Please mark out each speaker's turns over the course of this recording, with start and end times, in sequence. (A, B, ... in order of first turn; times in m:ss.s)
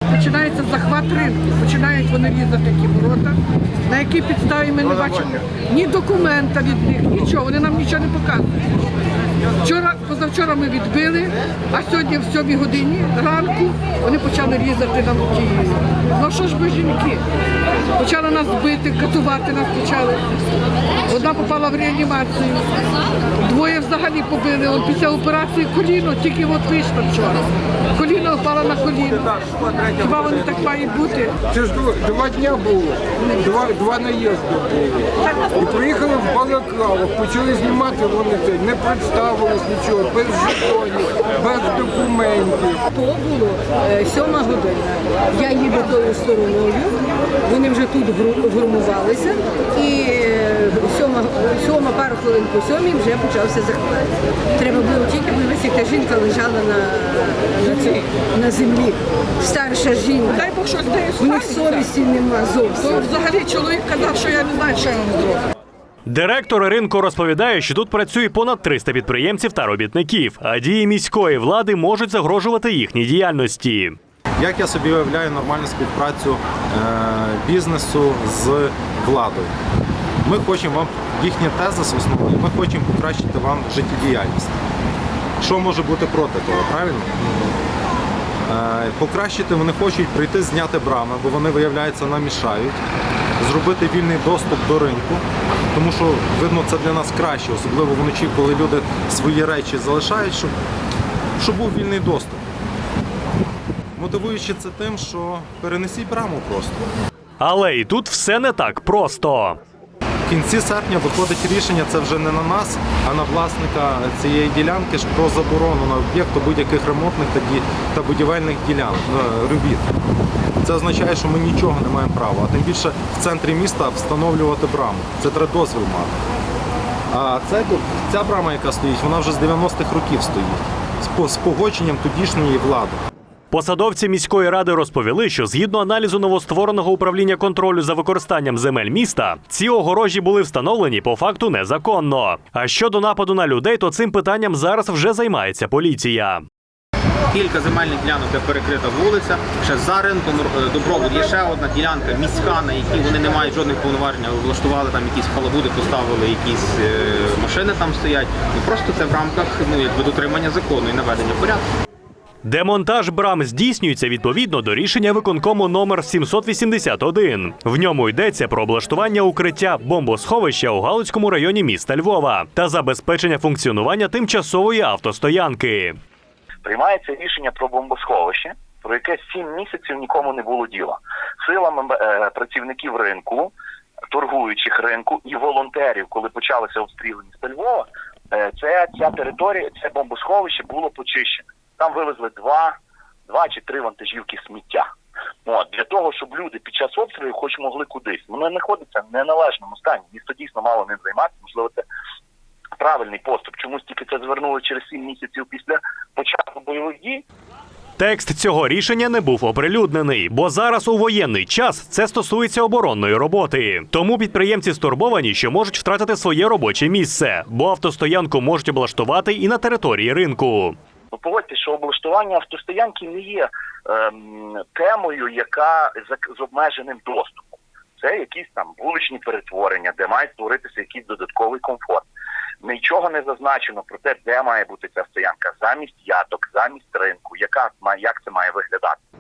0:00.1-0:03.4 A
0:03.9-0:08.5 A
0:09.6-0:17.2 A
0:18.0-0:20.2 A
0:21.1-0:22.8 A
0:23.4-0:31.3 A
0:31.5-0:42.8 B
0:35.4-0:35.6 A
0:42.9-1:00.4 C
1:00.3-1:01.9 A
1:01.2-1:03.0 C
1:02.8-1:05.4 A
1:06.0-1:14.0 D
1:14.4-1:19.5 E
1:20.2-1:24.6 E
1:25.4-1:27.2 E
1:28.5-1:32.8 E
1:33.4-1:40.5 E
1:41.4-1:42.4 E
1:44.0-1:46.8 E
1:47.4-1:49.6 D
1:50.2-1:59.9 E
2:00.6-2:06.2 E
2:07.1-2:13.0 E
2:13.5-2:26.4 D
2:27.3-2:41.6 F
2:42.4-2:56.0 D
2:56.6-3:03.5 G
3:04.1-3:12.8 G
3:13.3-3:14.8 G
3:15.4-3:21.8 G
3:22.8-3:27.2 G
3:28.0-3:40.8 D
3:41.1-3:52.1 G
3:52.6-3:59.0 G